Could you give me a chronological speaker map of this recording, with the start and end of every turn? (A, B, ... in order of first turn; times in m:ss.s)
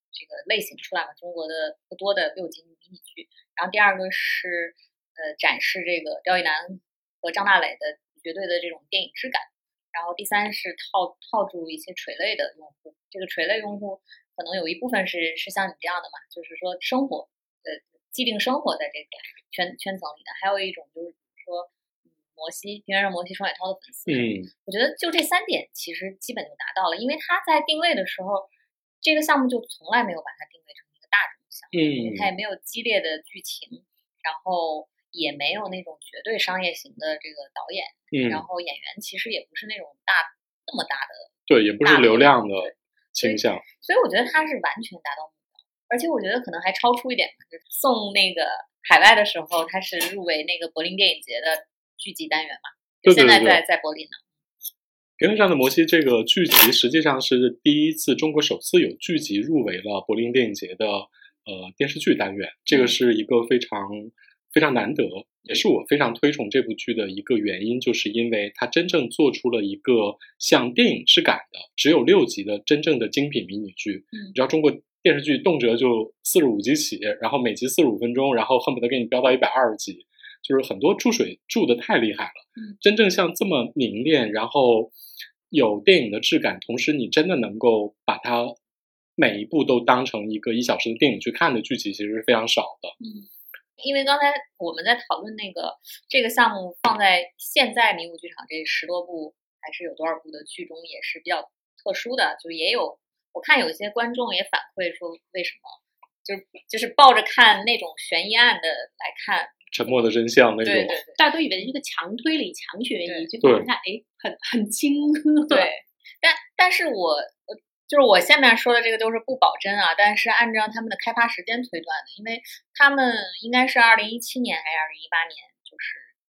0:00.1-0:21.7 A
0:22.3-0:28.5 A
0:24.1-0:24.5 B
0:29.0-0:41.3 A
0:31.7-0:32.3 B
0:38.1-0:38.4 B
0:41.5-0:43.6 B
0:41.8-0:54.2 A
0:53.0-0:53.6 B
0:55.2-1:24.9 B
1:25.5-1:28.6 B
1:29.2-1:33.0 B
1:33.0-1:33.3 A
1:33.8-1:49.6 A
1:49.7-1:51.0 B
1:50.6-1:51.2 A
1:51.2-1:55.7 C
1:53.4-1:53.7 B
1:55.5-2:06.1 A